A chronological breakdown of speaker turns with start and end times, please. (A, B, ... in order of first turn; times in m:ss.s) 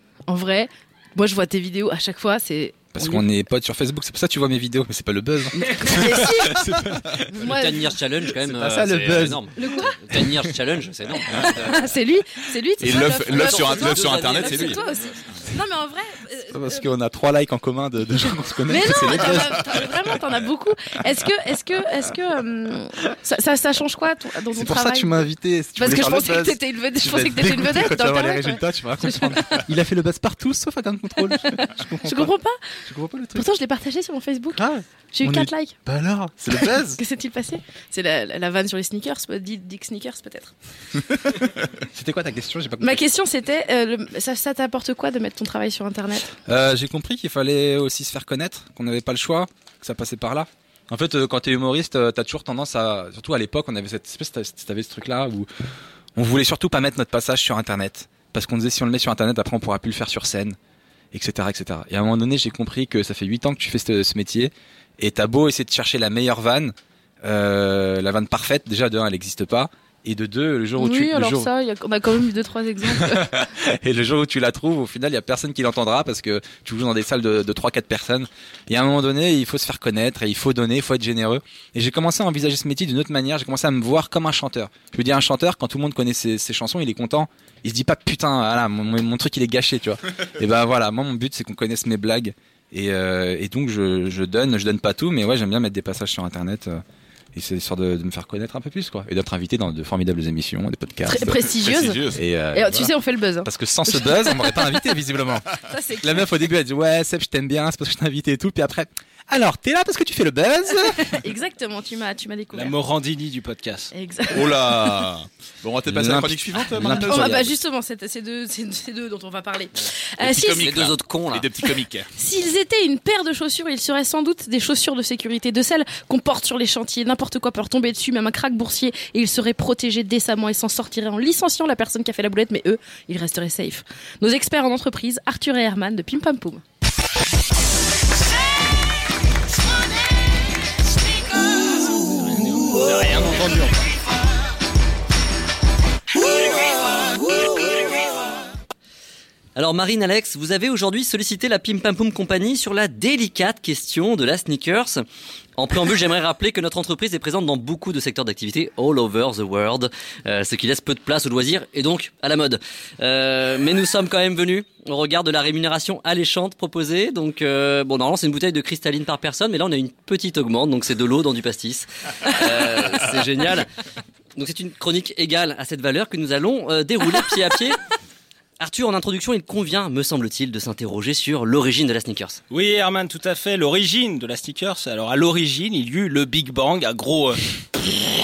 0:00.3-0:03.2 A
0:02.9-0:07.3 B
0:05.6-0:06.8 A
0:07.3-0:11.9 C
0:07.4-0:07.9 A
0:08.4-0:09.4 B
0:09.6-0:10.0 A
0:11.3-0:16.9 A
0:12.8-0:14.8 D
0:12.9-0:14.8 C
0:16.5-0:19.8 B
0:18.6-0:29.6 A
0:24.5-0:32.3 B
0:31.4-0:32.6 A
0:32.9-0:33.4 B
0:33.4-0:34.6 A
0:34.6-0:37.0 B
0:35.1-0:35.7 A
0:36.6-0:40.5 A
0:41.8-0:43.0 B
0:42.8-0:46.3 A
0:46.5-0:55.5 B
0:56.1-1:00.6 B
1:01.1-1:11.5 B
1:10.8-1:13.5 A
1:12.9-1:36.8 B
1:37.3-1:41.4 B
1:41.1-1:44.7 A
1:41.5-1:42.2 D
1:42.1-1:42.9 B
1:43.4-1:45.5 B
1:45.7-1:46.4 A
1:46.0-1:51.1 B
1:51.0-1:52.8 A
1:52.5-1:53.9 E
1:53.9-1:55.1 A
1:54.3-1:57.5 D
1:55.9-1:57.5 B
1:57.0-2:00.8 A
2:00.2-2:02.1 D
2:00.6-2:01.5 C
2:02.2-2:16.6 A
2:21.9-2:23.9 E
2:29.6-2:35.0 C
2:35.6-2:53.7 C
2:54.4-2:57.8 C
2:58.6-3:02.4 C
3:02.5-3:07.4 E